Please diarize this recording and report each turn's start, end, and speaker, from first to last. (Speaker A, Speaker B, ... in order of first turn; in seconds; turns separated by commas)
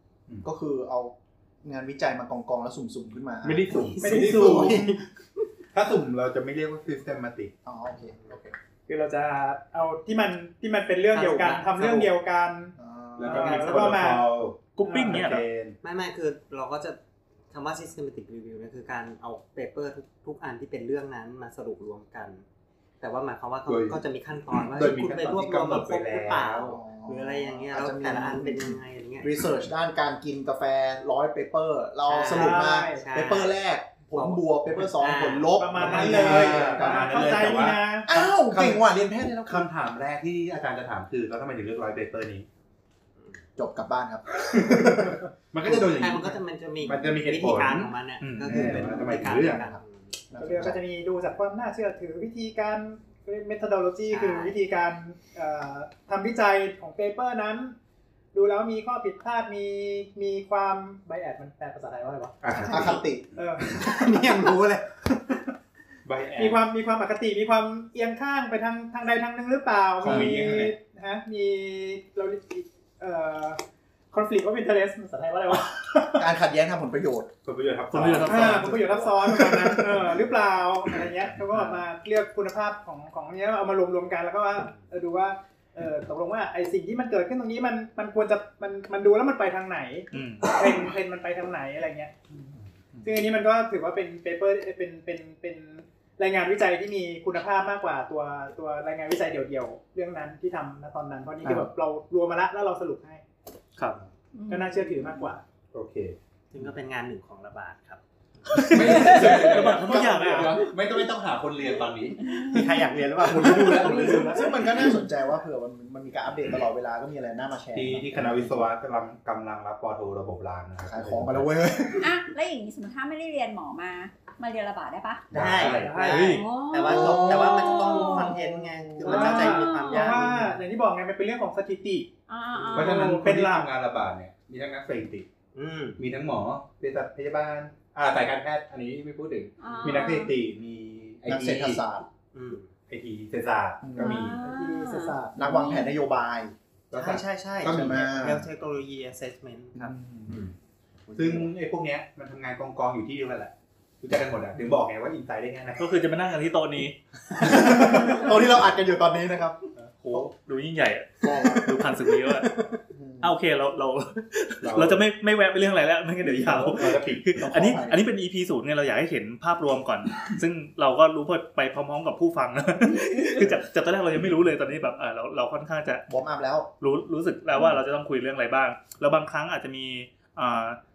Speaker A: 0.4-5.0, Speaker B: 3.4-5.0, Speaker C: 4.0-4.7, Speaker D: 4.4-4.8, Speaker B: 5.7-7.5, Speaker A: 7.6-8.6, Speaker C: 8.9-14.3, Speaker D: 11.1-12.1, Speaker A: 12.8-13.8, Speaker B: 13.2-15.8, Speaker E: 14.8-15.4, Speaker C: 14.8-15.2, Speaker D: 15.8-17.0, Speaker D: 17.5-22.4, Speaker D: 23.0-29.4, Speaker B: 23.6-26.7, Speaker A: 26.7-37.1, Speaker D: 32.0-33.5, Speaker C: 32.2-33.1, Speaker D: 34.1-36.8, Speaker C: 35.5-38.1, Speaker B: 35.8-38.9, Speaker A: 38.0-39.7, Speaker B: 39.4-42.5, Speaker A: 43.6-45.8, Speaker B: 44.5-49.7, Speaker D: 45.6-50.1, Speaker E: 48.2-48.5, Speaker A: 48.5-50.8, Speaker C: 50.4-57.7, Speaker D: 54.1-54.5, Speaker C: 58.3-62.5, Speaker B: 62.4-63.0, Speaker A: 62.6-63.3, Speaker F: 62.6-63.0, Speaker C: 63.3-63.8, Speaker D: 63.6-65.4, Speaker B: 66.0-66.6, Speaker C: 66.3-76.3, Speaker B: 70.0-70.8, Speaker E: 70.0-70.3, Speaker A: 76.2-77.3, Speaker B: 77.4-80.0, Speaker E: 77.9-78.7, Speaker C: 78.2-92.2, Speaker A: 78.3-79.0, Speaker E: 81.5-81.8, Speaker E: 90.1-90.5, Speaker C: 93.0-103.2, Speaker E: 103.8-104.0, Speaker F: 104.3-105.3, Speaker C: 104.5-105.4, Speaker B: 105.7-106.2, Speaker D: 106.5-109.5, Speaker E: 108.5-110.6, Speaker B: 108.7-114.5, Speaker F: 112.2-112.7, Speaker D: 112.3-114.5, Speaker A: 113.3-118.7, Speaker B: 117.7-121.5, Speaker A: 120.8-122.2, Speaker F: 122.0-125.3, Speaker D: 125.3-130.6, Speaker B: 125.3-126.1, Speaker C: 125.6-126.6, Speaker E: 126.1-126.4, Speaker F: 126.2-128.3, Speaker A: 126.8-129.3, Speaker C: 129.0-132.1, Speaker F: 129.1-130.3, Speaker F: 132.3-133.2, Speaker B: 132.7-135.3, Speaker C: 132.7-133.7, Speaker D: 135.5-136.0, Speaker B: 136.0-141.8, Speaker F: 139.6-140.3, Speaker A: 141.3-142.1, Speaker D: 142.3-142.7, Speaker B: 142.9-144.4, Speaker A: 143.8-144.3, Speaker F: 144.0-145.9, Speaker C: 144.4-145.5, Speaker A: 145.3-146.5, Speaker B: 146.9-148.1, Speaker D: 146.9-150.4, Speaker A: 147.6-148.5, Speaker A: 149.7-150.3, Speaker A: 151.1-151.5, Speaker B: 151.2-155.8, Speaker E: 155.8-157.0, Speaker A: 157.4-160.2, Speaker E: 160.0-162.5, Speaker A: 161.2-161.9, Speaker A: 162.9-163.3, Speaker E: 163.2-176.0, Speaker B: 164.6-165.1, Speaker B: 166.3-167.3, Speaker A: 166.6-168.0, Speaker A: 176.1-176.7, Speaker E: 176.8-180.8